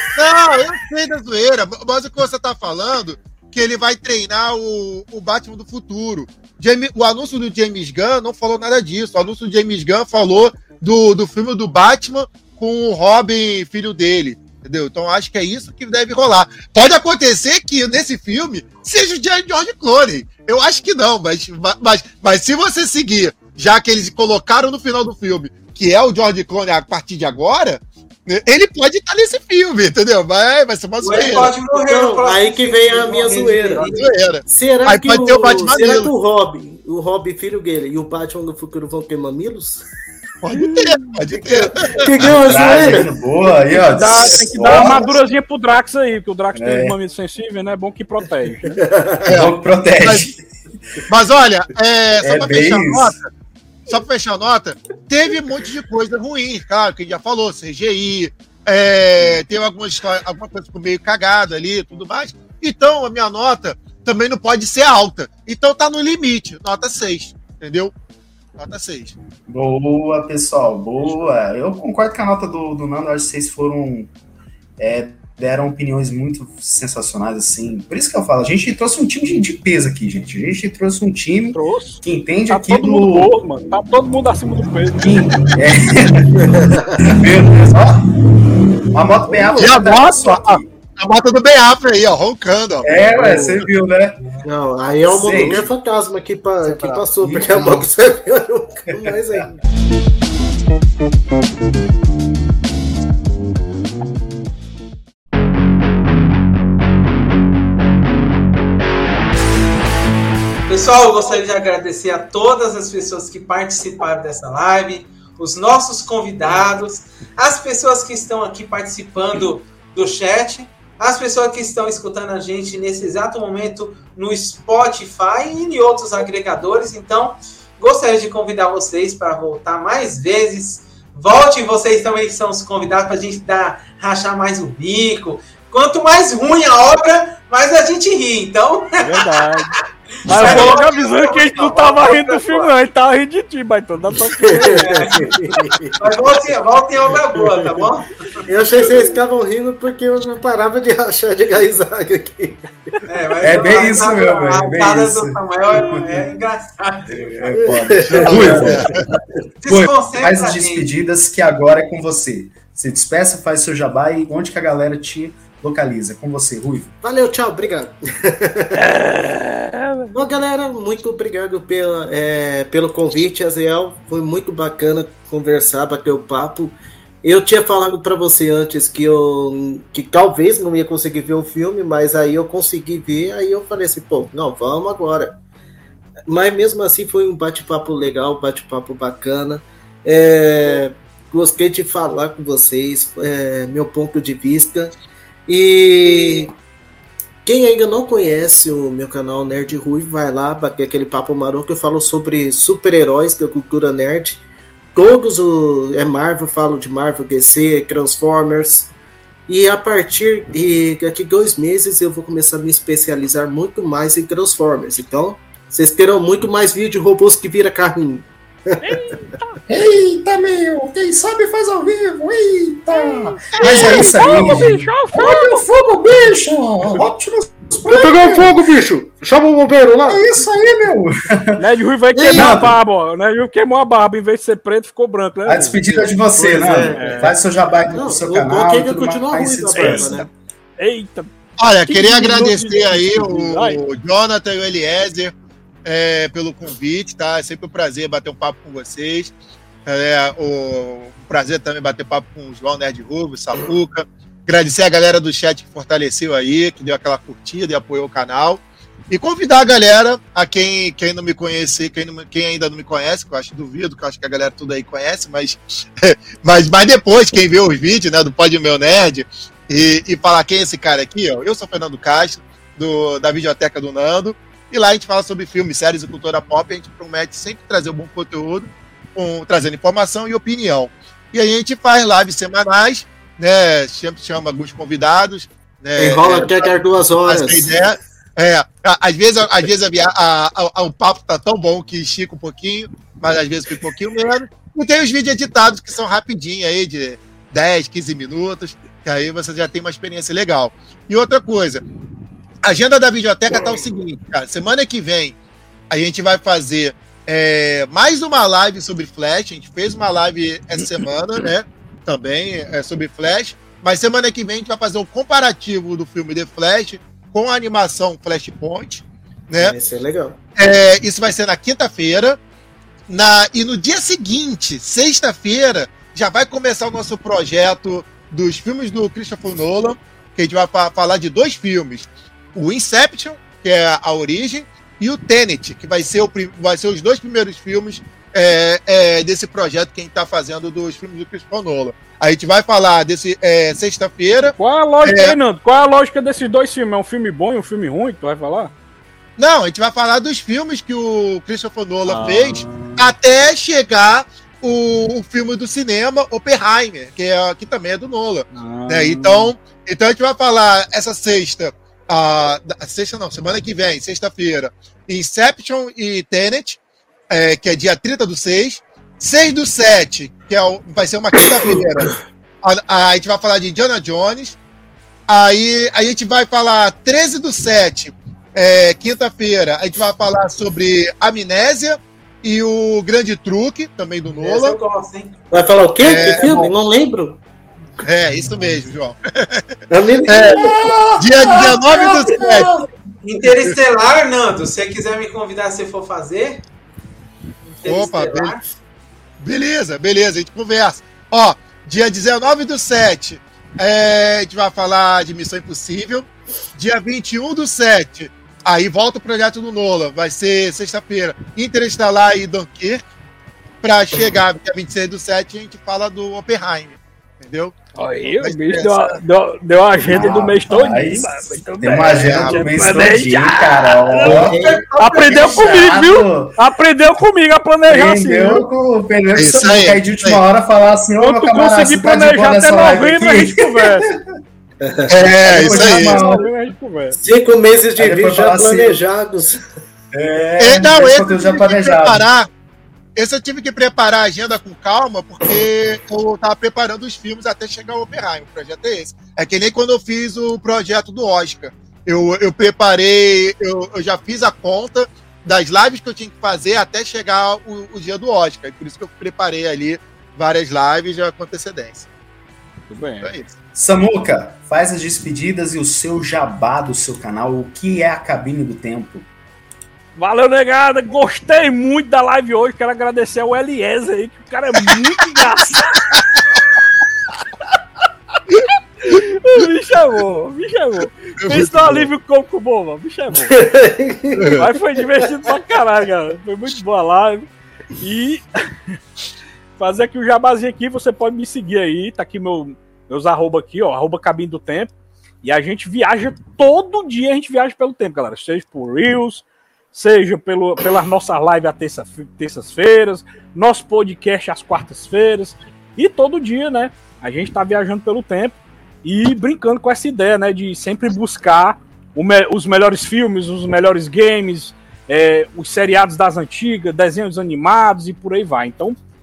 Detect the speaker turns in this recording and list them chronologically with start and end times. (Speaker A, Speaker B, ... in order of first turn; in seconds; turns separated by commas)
Speaker A: 0.2-31.6, Speaker B: 31.0-34.1, Speaker C: 31.1-39.8, Speaker A: 33.9-36.1, Speaker A: 40.4-42.1, Speaker C: 40.5-43.1, Speaker D: 42.2-45.2, Speaker E: 43.9-48.8, Speaker C: 44.1-45.1, Speaker D: 46.5-47.0, Speaker C: 48.7-49.2, Speaker A: 49.2-50.3, Speaker D: 49.3-50.4, Speaker A: 51.1-53.3, Speaker D: 52.2-53.2, Speaker A: 53.9-67.9, Speaker A: 68.6-69.2, Speaker D: 69.5-74.1, Speaker D: 74.8-83.3, Speaker E: 81.5-85.3, Speaker D: 85.0-88.0, Speaker C: 86.4-87.1, Speaker D: 88.9-90.7, Speaker C: 89.3-89.7, Speaker A: 89.6-93.0, Speaker D: 92.8-94.2, Speaker C: 93.0-93.7, Speaker B: 94.2-94.5, Speaker C: 94.5-99.6, Speaker D: 95.1-95.7, Speaker D: 96.6-97.9, Speaker B: 110.7-139.3, Speaker E: 139.0-139.7, Speaker E: 140.3-145.2, Speaker B: 140.3-142.7, Speaker C: 144.4-145.9, Speaker B: 144.8-145.3, Speaker B: 146.0-148.4, Speaker C: 148.5-152.7, Speaker B: 153.1-157.7, Speaker D: 153.4-156.3, Speaker D: 157.1-166.9, Speaker C: 157.6-158.8, Speaker A: 158.1-159.0, Speaker B: 159.6-160.9, Speaker C: 167.0-168.8, Speaker E: 168.8-170.1, Speaker C: 170.1-185.4, Speaker C: 186.3-195.0, Speaker C: 195.5-196.5, Speaker C: 197.4-204.4, Speaker C: 204.9-208.9, Speaker C: 209.5-218.9, Speaker E: 218.8-219.6, Speaker D: 219.7-228.6, Speaker E: 222.9-225.7, Speaker A: 223.6-224.0, Speaker C: 223.7-224.7, Speaker C: 227.9-230.2, Speaker D: 230.1-231.6, Speaker E: 231.6-236.1, Speaker C: 232.2-232.7, Speaker D: 232.3-232.8, Speaker D: 235.5-240.2, Speaker C: 236.3-237.4, Speaker E: 236.9-237.4, Speaker C: 237.9-240.3, Speaker E: 239.8-241.3, Speaker A: 241.6-245.3, Speaker E: 241.9-243.8, Speaker A: 245.8-249.3, Speaker A: 249.9-301.8, Speaker C: 286.0-287.8, Speaker A: 302.6-305.4, Speaker A: 305.9-319.8, Speaker C: 319.6-320.4, Speaker A: 320.6-322.4, Speaker A: 323.1-345.4, Speaker E: 344.6-348.7, Speaker A: 349.4-374.6, Speaker E: 352.1-353.1, Speaker E: 358.5-359.5, Speaker A: 375.3-384.8, Speaker B: 384.3-385.3, Speaker C: 385.5-387.4, Speaker A: 386.0-386.7, Speaker A: 388.0-389.6, Speaker C: 389.9-391.1, Speaker A: 390.3-392.7, Speaker B: 391.9-392.3, Speaker B: 393.2-396.6, Speaker B: 397.7-398.6, Speaker A: 397.8-398.6, Speaker A: 399.4-413.0, Speaker A: 413.8-417.8, Speaker E: 418.0-428.7, Speaker A: 418.4-419.2, Speaker D: 420.1-426.6, Speaker A: 422.1-422.6, Speaker C: 424.2-424.9, Speaker D: 427.9-434.2, Speaker A: 429.4-430.4, Speaker E: 431.2-434.1, Speaker C: 434.8-435.2, Speaker A: 435.1-436.3, Speaker D: 435.4-436.5, Speaker E: 435.6-437.2, Speaker C: 437.1-439.6, Speaker D: 438.0-439.0, Speaker D: 440.1-442.3, Speaker A: 440.6-442.5, Speaker A: 443.2-462.1, Speaker E: 462.9-463.3, Speaker A: 463.2-463.5, Speaker D: 463.8-469.3, Speaker E: 470.2-476.0, Speaker A: 478.5-479.2, Speaker E: 479.0-483.6, Speaker A: 481.4-482.1, Speaker C: 483.4-484.6, Speaker A: 484.4-484.6, Speaker E: 484.6-487.5, Speaker E: 488.0-488.6, Speaker E: 489.8-494.9, Speaker E: 495.4-519.0